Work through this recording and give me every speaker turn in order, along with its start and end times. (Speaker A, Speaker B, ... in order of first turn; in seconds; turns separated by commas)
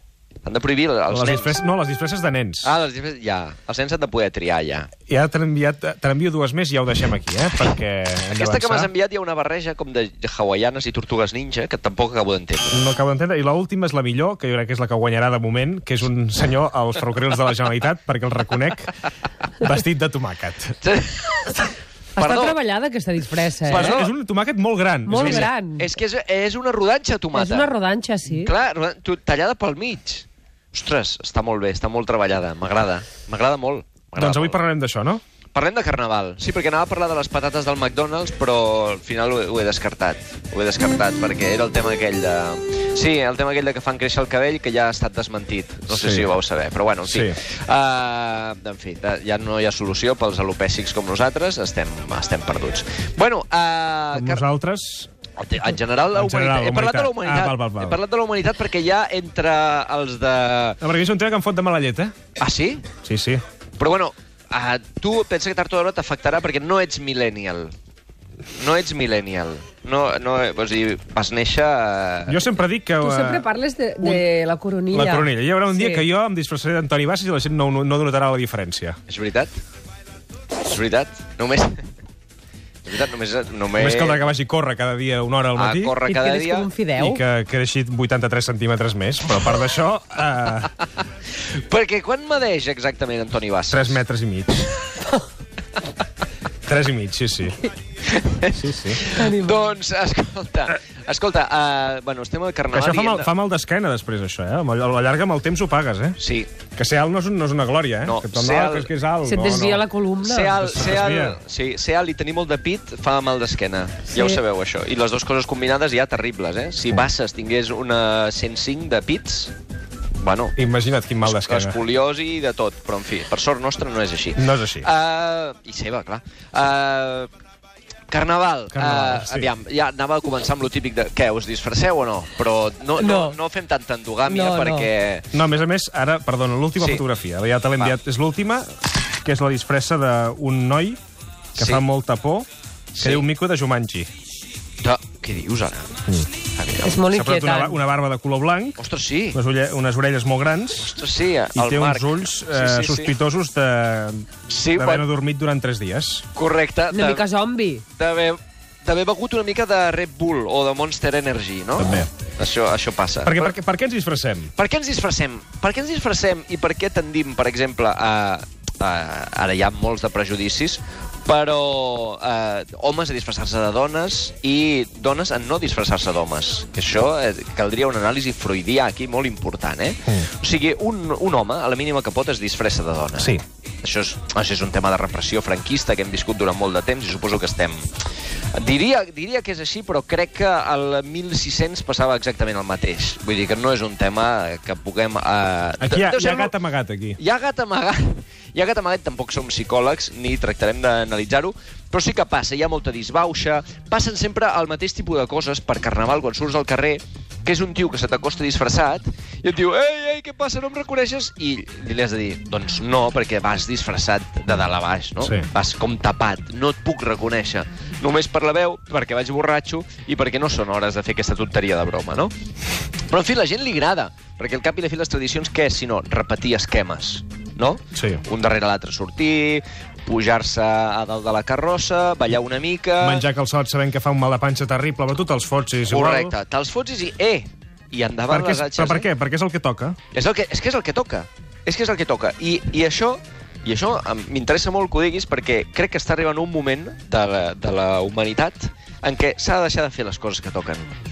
Speaker A: 0.4-1.5, Speaker B: 1.1-2.7, Speaker A: 2.6-4.9, Speaker B: 5.1-8.9, Speaker A: 8.3-12.9, Speaker B: 12.7-18.9, Speaker B: 19.6-20.8, Speaker A: 20.8-22.6, Speaker C: 22.1-24.0, Speaker B: 23.6-25.5, Speaker A: 23.7-24.1, Speaker C: 25.1-25.9, Speaker A: 25.1-27.7, Speaker C: 27.3-28.5, Speaker A: 28.3-34.6, Speaker B: 34.1-35.2, Speaker A: 35.5-54.4, Speaker B: 45.9-46.3, Speaker B: 47.0-47.4, Speaker B: 54.1-55.1, Speaker A: 55.4-60.8, Speaker B: 56.1-58.0, Speaker B: 60.8-62.1, Speaker A: 62.4-62.9, Speaker B: 63.0-63.4, Speaker A: 63.8-67.7, Speaker A: 68.5-72.4, Speaker B: 72.3-73.5, Speaker C: 73.0-76.0, Speaker B: 74.9-79.0, Speaker A: 79.1-79.5, Speaker A: 80.6-81.8, Speaker A: 82.8-84.2, Speaker B: 83.7-86.0, Speaker A: 85.5-86.7, Speaker C: 86.0-87.2, Speaker B: 87.0-90.7, Speaker A: 91.4-94.0, Speaker B: 93.7-94.7, Speaker B: 96.6-97.6, Speaker A: 98.0-103.3, Speaker B: 98.5-99.0, Speaker C: 99.2-99.5, Speaker B: 102.7-106.2, Speaker A: 106.2-106.5, Speaker B: 106.7-109.8, Speaker A: 108.0-108.9, Speaker C: 109.2-110.5, Speaker A: 110.2-119.5, Speaker B: 110.5-111.4, Speaker C: 114.1-114.4, Speaker A: 120.2-120.5, Speaker B: 120.5-121.8, Speaker A: 121.2-127.3, Speaker B: 124.3-124.9, Speaker A: 128.1-135.3, Speaker B: 128.7-129.5, Speaker C: 133.0-133.4, Speaker C: 134.3-134.9, Speaker B: 135.3-138.7, Speaker A: 136.8-137.0, Speaker B: 139.2-141.0, Speaker A: 141.6-141.8, Speaker B: 141.6-144.1, Speaker A: 143.0-143.3, Speaker A: 144.8-145.9, Speaker A: 146.4-147.0, Speaker C: 146.8-147.8, Speaker B: 147.1-148.8, Speaker A: 148.8-149.4, Speaker B: 149.3-150.9, Speaker A: 150.8-153.1, Speaker B: 151.5-156.3, Speaker A: 154.5-155.1, Speaker A: 156.3-157.2, Speaker C: 156.9-157.8, Speaker A: 157.9-163.5, Speaker B: 161.8-162.1, Speaker B: 163.2-164.5, Speaker A: 164.5-187.9, Speaker B: 183.2-183.4, Speaker A: 188.5-196.5, Speaker B: 195.8-197.2, Speaker A: 197.2-222.3, Speaker B: 215.2-215.4, Speaker A: 223.1-233.3, Speaker B: 227.9-228.2, Speaker B: 233.0-236.3, Speaker A: 235.8-239.1, Speaker B: 238.3-240.0, Speaker A: 240.1-250.9